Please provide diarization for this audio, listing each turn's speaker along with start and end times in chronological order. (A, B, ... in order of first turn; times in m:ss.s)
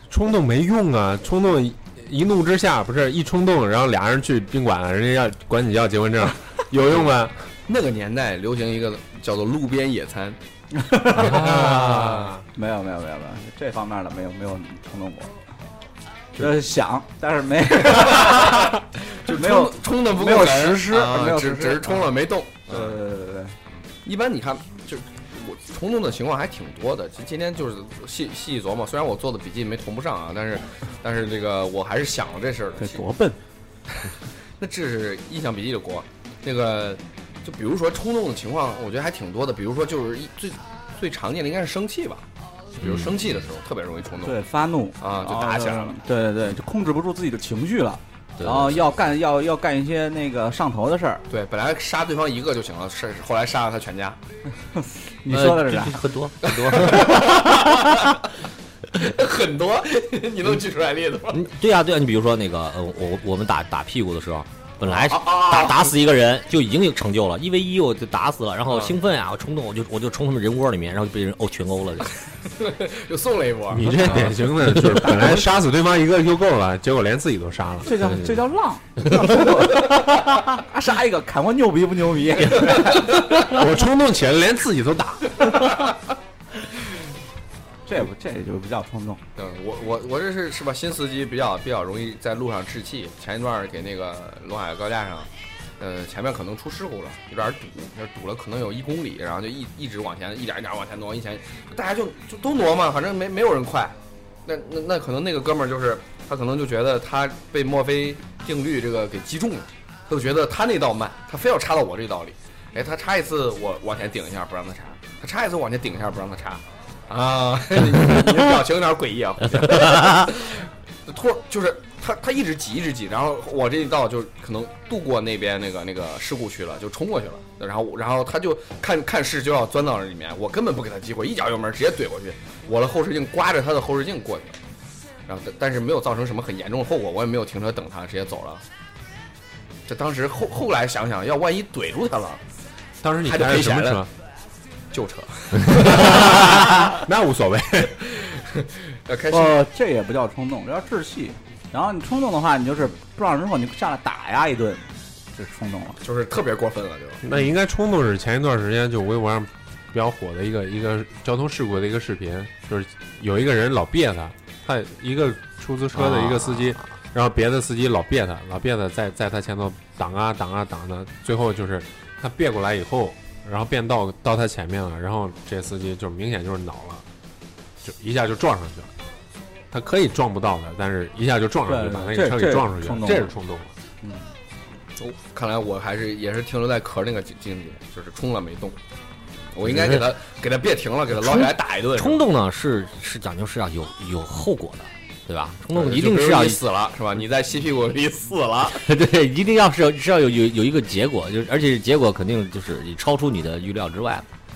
0:00.1-0:07.5 A
0:07.7-0:10.4 B
0:10.7-0:11.5 C
0:11.2-0:12.4 A
0:11.2-0:12.4 B
0:12.5-0:15.3 C
0:16.4-0:18.8 C
0:17.9-0:23.0 B
0:19.3-0:22.1 C
0:22.7-0:23.6 C
0:24.0-0:33.0 B
0:32.8-0:33.4 C
0:33.9-0:42.2 B
0:42.8-0:44.4 B
0:42.8-0:43.2 D
0:44.2-0:51.2 C
0:45.0-0:45.9 B
0:48.4-0:48.8 D
0:51.3-0:54.2 B
0:54.7-0:56.1 C
0:55.3-0:58.1 D
0:56.4-0:58.2 B
0:58.9-1:01.4 B
1:01.3-1:12.2 D
1:04.8-1:05.9 B
1:08.7-1:09.0 B
1:12.5-1:14.0 B
1:13.7-1:18.2 A
1:14.0-1:14.3 D
1:14.9-1:15.2 D
1:17.8-1:23.2 C
1:23.3-1:25.5 A
1:27.9-1:29.2 C
1:29.4-2:14.6 B
1:59.6-2:00.3 D
2:15.3-2:18.6 B
2:19.9-2:22.4 B
2:23.0-2:24.1 A
2:23.2-2:24.0 B
2:24.9-2:27.0 B
2:25.8-2:28.0 A
2:28.0-2:29.6 B
2:29.3-2:36.0 C
2:36.0-2:37.2 B
2:37.2-2:57.0 A
2:46.0-2:46.8 D
2:57.8-2:58.9 A
2:59.7-3:03.7 A
3:01.7-3:03.3 C
3:05.0-3:08.8 B
3:09.5-3:12.3 B
3:09.6-3:10.0 D
3:11.1-3:16.6 D
3:15.7-3:18.9 B
3:18.8-3:24.2 D